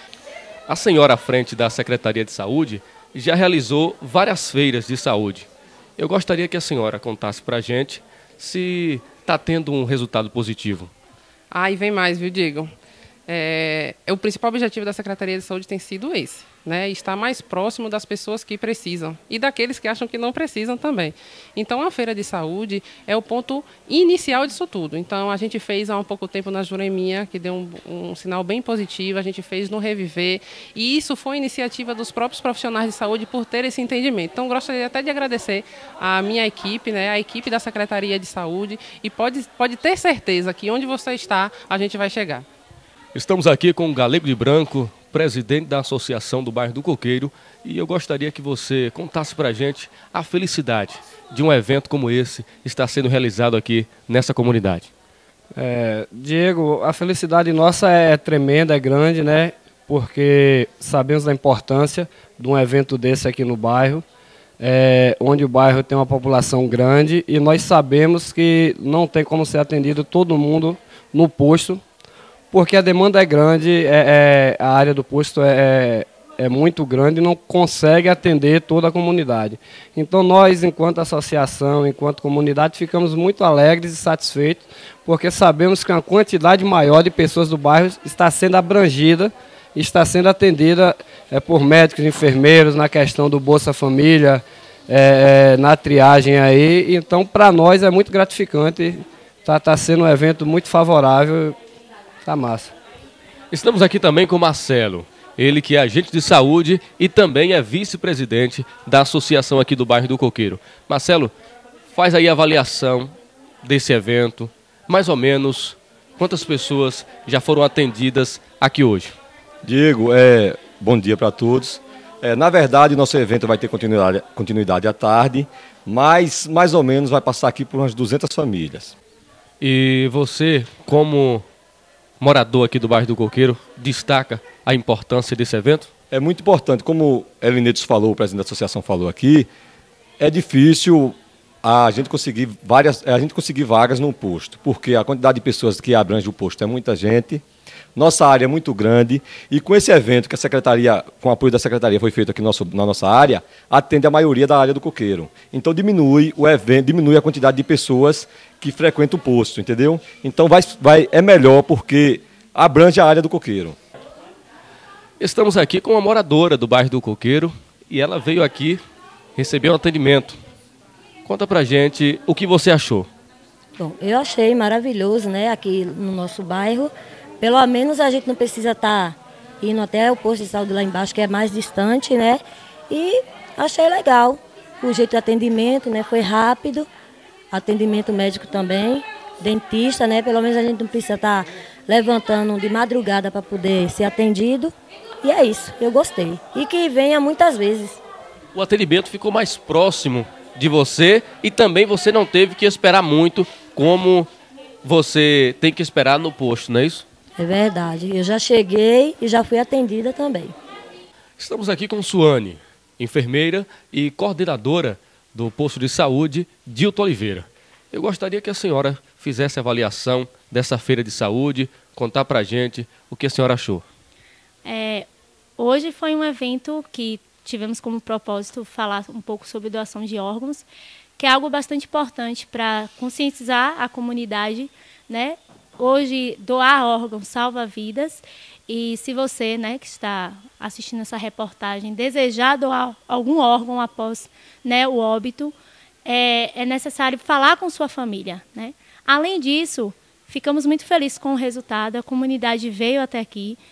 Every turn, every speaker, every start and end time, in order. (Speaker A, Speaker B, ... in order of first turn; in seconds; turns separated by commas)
Speaker A: 0.7-10.9, Speaker B: 11.5-12.7, Speaker B: 13.3-42.5, Speaker A: 43.1-54.9, Speaker C: 55.5-64.0, Speaker C: 64.6-71.8, Speaker C: 72.5-101.6, Speaker C: 102.2-102.8, Speaker A: 103.5-111.3, Speaker A: 111.9-113.1, Speaker A: 113.6-119.1, Speaker D: 119.6-128.9, Speaker A: 129.6-131.4, Speaker A: 132.2-135.9, Speaker D: 136.1-139.5, Speaker D: 140.2-147.4, Speaker D: 147.9-163.8, Speaker A: 165.2-168.8, Speaker A: 169.4-170.4, Speaker A: 171.2-173.1, Speaker E: 173.8-186.9, Speaker E: 187.5-198.0, Speaker A: 198.5-204.3, Speaker A: 204.8-207.1, Speaker E: 207.4-210.5, Speaker A: 211.4-223.8, Speaker F: 224.6-225.1, Speaker F: 225.6-230.7, Speaker F: 231.2-245.5, Speaker F: 246.1-253.6